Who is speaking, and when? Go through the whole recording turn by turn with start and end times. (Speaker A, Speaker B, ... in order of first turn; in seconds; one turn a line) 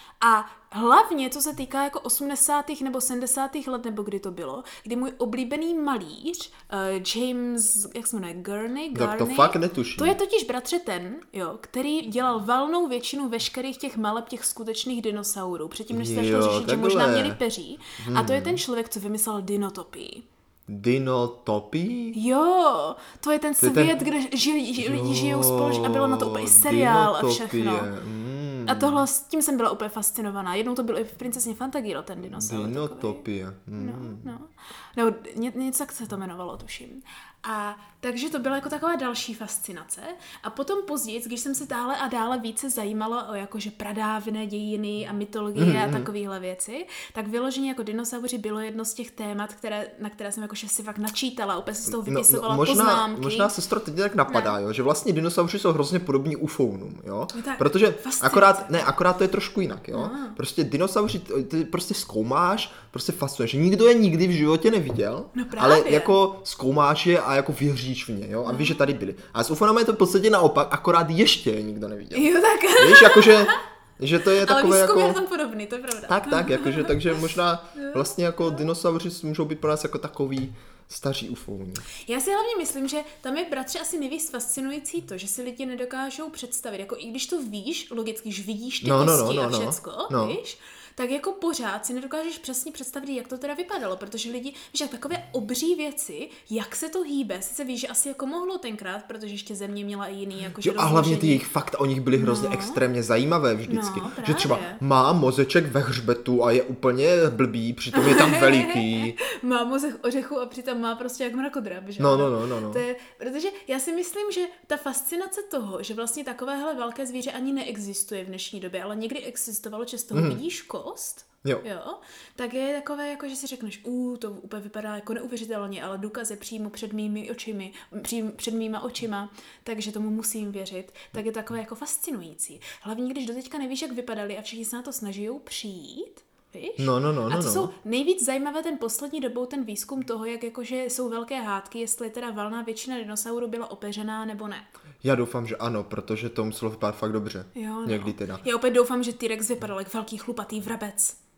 Speaker A: 0.2-20.2
Speaker B: 8.9-10.2
Speaker B: 15.9-17.4
Speaker B: 18.0-18.6
Speaker B: 20.7-22.2
Speaker A: 22.1-27.9
Speaker B: 23.6-24.0
Speaker B: 24.8-29.1
Speaker A: 28.7-33.2
Speaker B: 32.2-34.3
Speaker A: 33.8-53.5
Speaker B: 45.5-46.1
Speaker B: 51.9-75.2
Speaker A: 54.3-54.6
Speaker A: 57.3-58.9
Speaker A: 59.9-60.4
Speaker A: 65.3-66.2
Speaker A: 68.4-68.8
Speaker A: 72.1-73.6
Speaker A: 74.4-78.6
Speaker B: 76.1-81.8
Speaker A: 82.0-101.5
Speaker B: 88.8-90.4
Speaker B: 100.6-109.2
Speaker A: 102.1-102.8
Speaker A: 103.7-104.8
Speaker A: 107.9-144.7
Speaker B: 112.0-112.8
Speaker B: 120.1-120.4
Speaker B: 136.8-137.7
Speaker B: 145.0-148.4
Speaker A: 147.6-151.2